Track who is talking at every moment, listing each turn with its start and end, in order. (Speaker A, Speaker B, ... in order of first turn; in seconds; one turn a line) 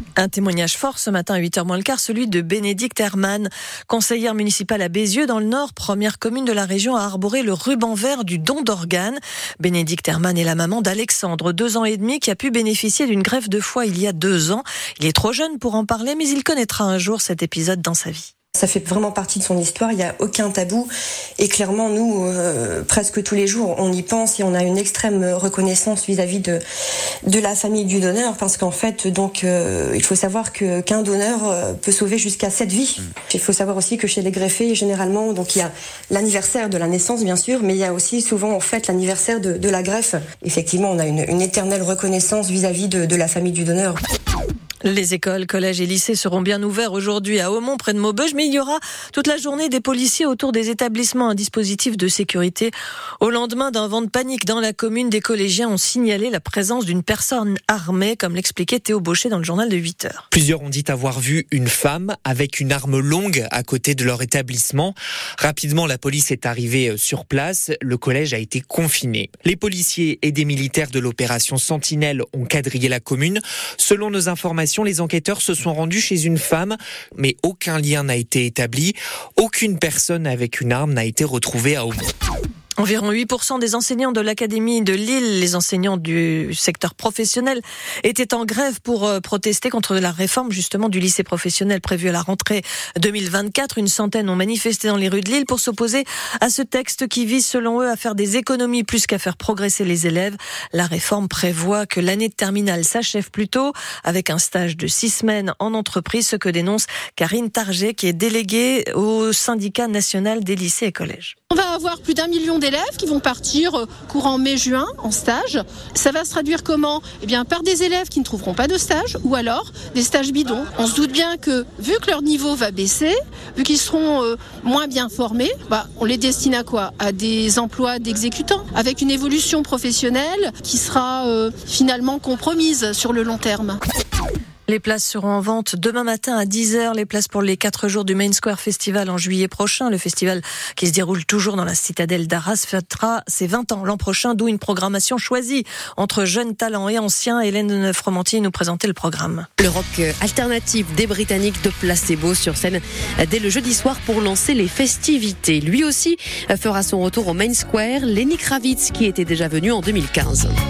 Speaker A: 0.2-18.3
Speaker B: 18.6-26.6
Speaker B: 27.2-44.0
Speaker A: 44.8-60.2
Speaker C: 60.3-82.1
Speaker A: 82.8-111.3
Speaker D: 111.5-133.8
Speaker A: 134.7-149.5
Speaker E: 149.6-160.6